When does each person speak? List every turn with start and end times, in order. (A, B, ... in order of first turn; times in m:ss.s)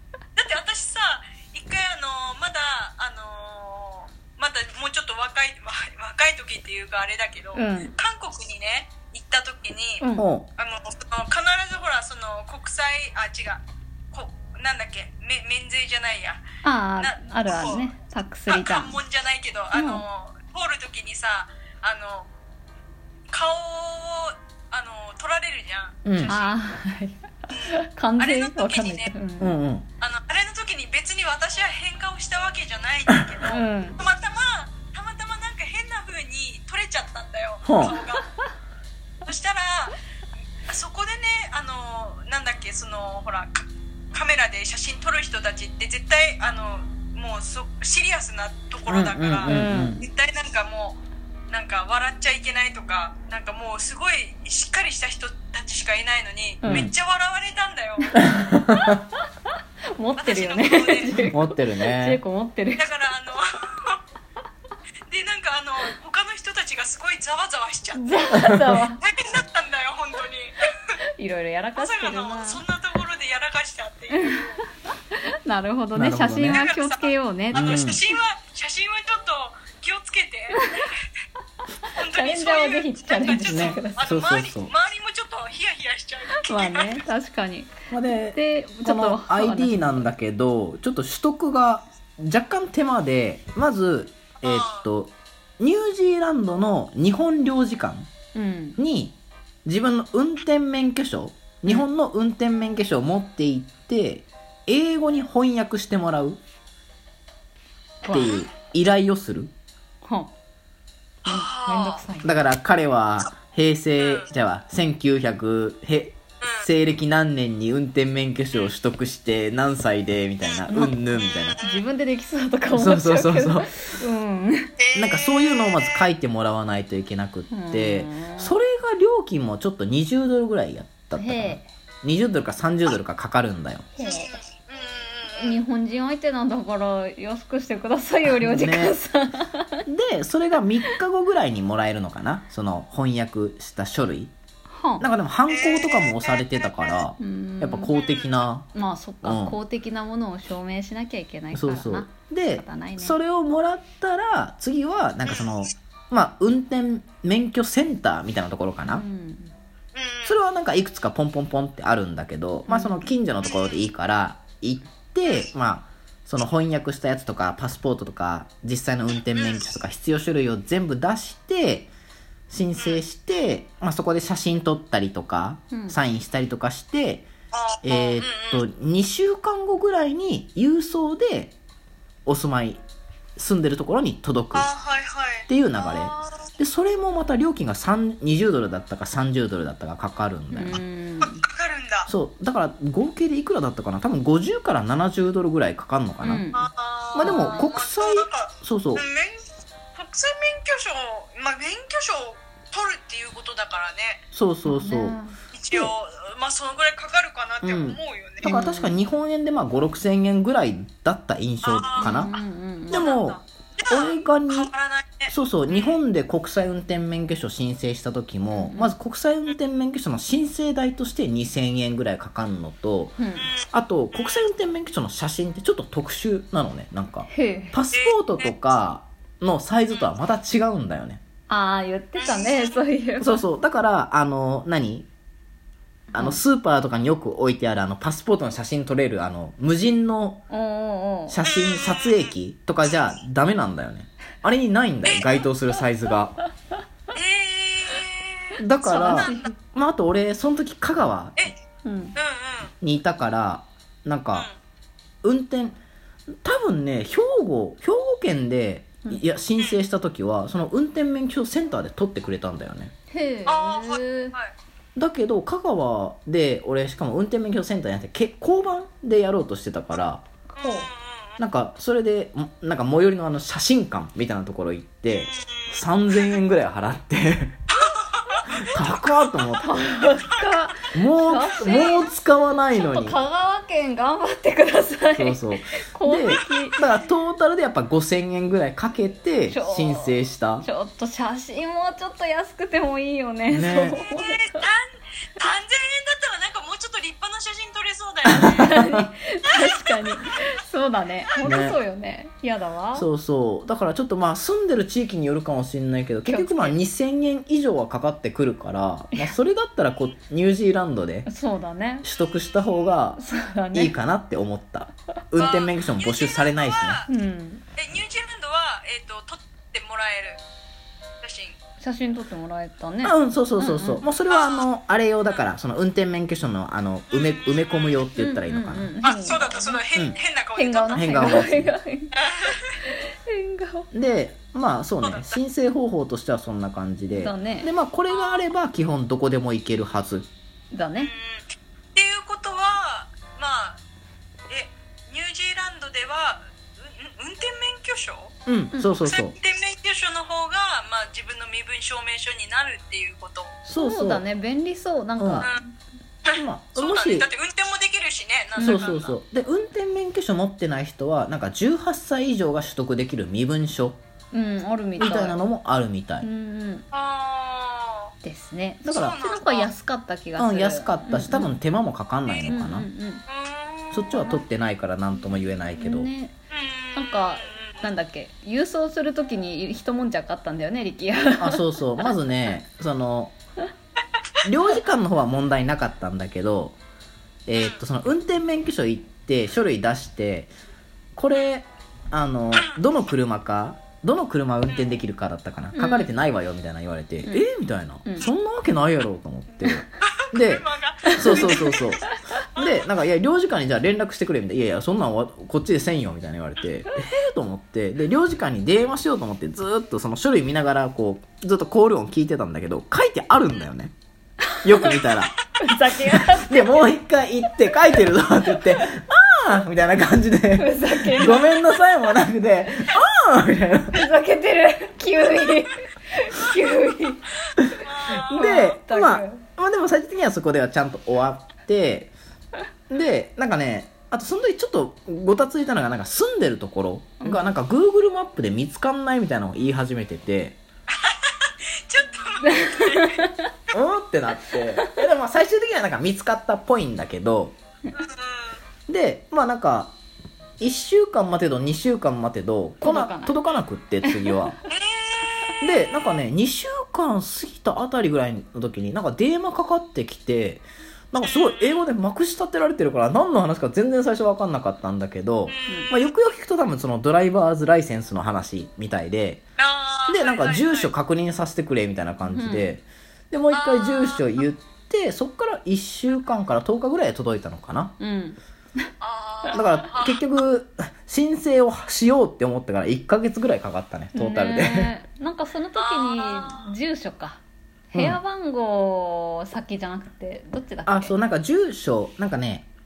0:00.4-0:10.0 A
0:07.5-0:08.0 B
0:10.0-0:10.3 B
0:10.2-0:10.5 C
0:10.6-0:16.5 A
0:16.6-0:19.0 B
0:17.0-0:17.9 A
0:18.5-0:22.3 A
0:19.7-0:20.0 B
0:23.3-0:26.6 A
0:26.0-0:26.4 C
0:26.3-0:29.6 B
0:27.5-0:29.1 A
0:29.4-0:29.8 C
0:30.0-0:38.2 A
0:33.4-0:34.0 B
0:37.6-0:38.0 C
0:39.2-0:40.0 A
0:40.7-0:58.0 A
0:48.9-0:50.0 C
0:49.4-0:50.0 B
0:56.6-0:56.9 B
0:56.6-0:56.9 C
0:58.2-0:59.0 C
0:59.9-1:02.9 B
1:00.2-1:01.1 A
1:01.1-1:02.2 C
1:02.8-1:04.0 A
1:05.1-1:08.0 A
1:07.9-1:09.0 B
1:08.3-1:08.8 C
1:09.0-1:10.9 A
1:11.2-1:12.6 B
1:11.8-1:14.6 A
1:14.1-1:18.0 B
1:15.9-1:16.6 C
1:16.5-1:21.1 A
1:17.5-1:18.0 C
1:20.5-1:20.9 B
1:21.9-1:24.1 B
1:21.9-1:27.0 A
1:23.4-1:24.7 C
1:26.3-1:30.1 B
1:27.9-1:38.1 C
1:34.4-1:34.8 A
1:38.3-1:38.8 B
1:38.8-1:46.4 C
1:48.0-1:48.4 B
1:48.1-1:49.5 C
1:50.0-1:50.3 B
1:51.2-1:52.5 B
1:51.3-1:52.0 A
1:52.2-2:01.6 C
1:54.0-1:54.3 A
1:56.4-1:56.7 A
2:01.5-2:01.8 A
2:01.6-2:04.8 B
2:02.7-2:03.7 C
2:04.8-2:06.0 A
2:05.0-2:13.9 C
2:07.5-2:08.6 B
2:11.1-2:11.6 B
2:14.0-2:14.4 B
2:14.0-2:15.6 A
2:15.3-2:19.8 B
2:18.3-2:19.0 C
2:19.9-2:24.3 C
2:24.7-2:25.0 B
2:25.0-2:28.7 C
2:25.5-2:27.0 A
2:27.2-2:27.9 B
2:28.0-2:28.4 A
2:28.7-2:33.2 B
2:29.2-2:29.6 C
2:31.5-2:39.0 C
2:35.2-2:35.5 A
2:38.8-2:39.5 B
2:39.9-2:40.3 A
2:40.2-2:51.9 C
2:42.7-2:43.1 B
2:43.4-2:43.8 A
2:49.3-2:49.6 A
2:52.5-2:57.3 C
2:52.8-2:53.0 A
2:55.7-2:56.0 B
2:57.5-2:58.6 A
2:57.8-3:01.6 C
3:02.2-3:02.8 C
3:03.4-3:04.7 C
3:04.5-3:06.4 A
3:05.5-3:10.8 C
3:10.5-3:11.4 B
3:11.2-3:12.1 A
3:12.1-3:16.4 C
3:16.2-3:16.6 B
3:16.5-3:24.2 A
3:17.1-3:19.0 C
3:17.2-3:17.7 B
3:24.3-3:25.2 C
3:24.6-3:25.4 B
3:25.5-3:28.5 A
3:27.6-3:32.3 C
3:28.4-3:29.0 B
3:31.6-3:32.4 A
3:32.0-3:33.1 B
3:32.9-3:34.7 C
3:33.0-3:36.0 A
3:35.3-3:43.2 C
3:38.5-3:39.0 B
3:43.2-3:43.5 B
3:43.4-3:44.4 A
3:43.7-3:51.2 C
3:47.3-3:47.8 B
3:47.9-3:48.6 A
3:51.5-3:53.4 B
3:52.2-3:52.8 A
3:53.2-3:55.1 C
3:56.1-3:56.4 B
3:56.1-4:00.4 C
4:00.5-4:01.4 B
4:01.3-4:06.4 C
4:01.4-4:02.3 A
4:05.1-4:05.3 A
4:07.1-4:08.6 A
4:08.6-4:11.5 C
4:08.8-4:09.5 B
4:09.2-4:09.5 A
4:11.8-4:12.2 B
4:12.1-4:12.7 A
4:12.8-4:14.5 C
4:15.2-4:15.8 C
4:16.4-4:22.9 C
4:23.1-4:24.4 B
4:23.4-4:24.5 A
4:25.0-4:30.2 C
4:30.6-4:31.4 A
4:30.6-4:30.9 B
4:31.4-4:37.6 C
4:35.2-4:36.4 A
4:37.7-4:38.7 A
4:38.5-4:39.7 C
4:39.6-4:42.1 B
4:40.9-4:43.2 C
4:42.7-4:46.9 B
4:45.1-4:50.7 C
4:49.5-4:54.7 B
4:53.5-4:54.0 C
4:54.1-4:58.6 A
4:58.3-5:03.1 B
4:58.3-4:59.1 C
4:59.4-5:00.2 A
5:01.4-5:01.8 C
5:02.9-5:11.3 C
5:06.2-5:06.8 B
5:11.3-5:12.1 B
5:12.0-5:13.2 C
5:13.2-5:13.9 B
5:13.7-5:17.0 C
5:15.4-5:17.1 A
5:17.1-5:17.6 B
5:17.8-5:20.4 A
5:21.2-5:21.6 A
5:21.8-5:24.0 B
5:23.0-5:28.9 C
5:24.2-5:24.7 A
5:27.1-5:28.1 A
5:28.1-5:29.8 B
5:29.0-5:31.4 A
5:30.6-5:32.1 B
5:30.9-5:31.7 C
5:32.1-5:32.8 A
5:32.9-5:33.9 B
5:33.9-5:40.3 C
5:35.0-5:35.4 A
5:37.1-5:37.7 B
5:38.1-5:38.4 A
5:40.7-5:41.1 B
5:41.0-5:43.8 A
5:44.5-5:48.3 A
5:48.4-5:49.3 C
5:49.1-5:53.6 A
5:53.6-5:54.2 C
5:53.7-5:55.7 B
5:55.2-5:55.5 C
5:56.2-5:59.1 A
5:56.3-5:57.3 C
5:58.6-5:58.9 B
5:58.6-6:04.0 C
6:04.3-6:05.4 B
6:05.0-6:06.3 C
6:06.2-6:06.8 B
6:06.9-6:08.1 A
6:08.2-6:11.6 B
6:08.8-6:09.2 C
6:08.9-6:09.7 A
6:10.4-6:12.9 C
6:12.5-6:13.2 B
6:13.3-6:14.0 A
6:13.9-6:16.1 C
6:14.1-6:14.4 B
6:15.8-6:16.4 B
6:16.5-6:17.8 A
6:16.9-6:21.6 B
6:21.4-6:23.3 C
6:24.4-6:26.8 C
6:27.5-6:30.5 C
6:31.2-6:53.9 C
6:35.7-6:36.1 B
6:38.0-6:38.3 B
6:40.0-6:41.9 A
6:41.0-6:42.5 B
6:42.6-6:42.8 A
6:54.6-6:55.4 C
6:54.6-6:57.0 B
6:55.9-7:04.1 C
6:57.6-6:59.0 B
7:00.5-7:01.8 B
7:03.9-7:09.4 B
7:07.8-7:08.4 A
7:08.3-7:12.1 C
7:12.9-7:20.6 C
7:17.2-7:17.5 B
7:20.9-7:23.3 A
7:22.4-7:23.5 B
7:23.7-7:27.6 C
7:24.8-7:25.0 B
7:27.9-7:28.6 A
7:28.9-7:30.0 C
7:30.6-7:34.6 C
7:32.8-7:33.4 B
7:34.0-7:34.4 B
7:34.7-7:35.3 A
7:35.6-7:49.4 C
7:41.2-7:41.8 A
7:45.5-7:46.1 A
7:49.6-7:50.9 A
7:50.1-7:57.9 C
7:52.2-7:52.7 B
7:53.5-7:54.2 A
7:58.0-7:58.9 B
7:59.0-8:00.2 A
7:59.5-8:04.9 C
8:04.1-8:07.4 B
8:05.7-8:06.7 A
8:07.9-8:11.1 B
8:07.9-8:08.2 C
8:10.8-8:12.7 C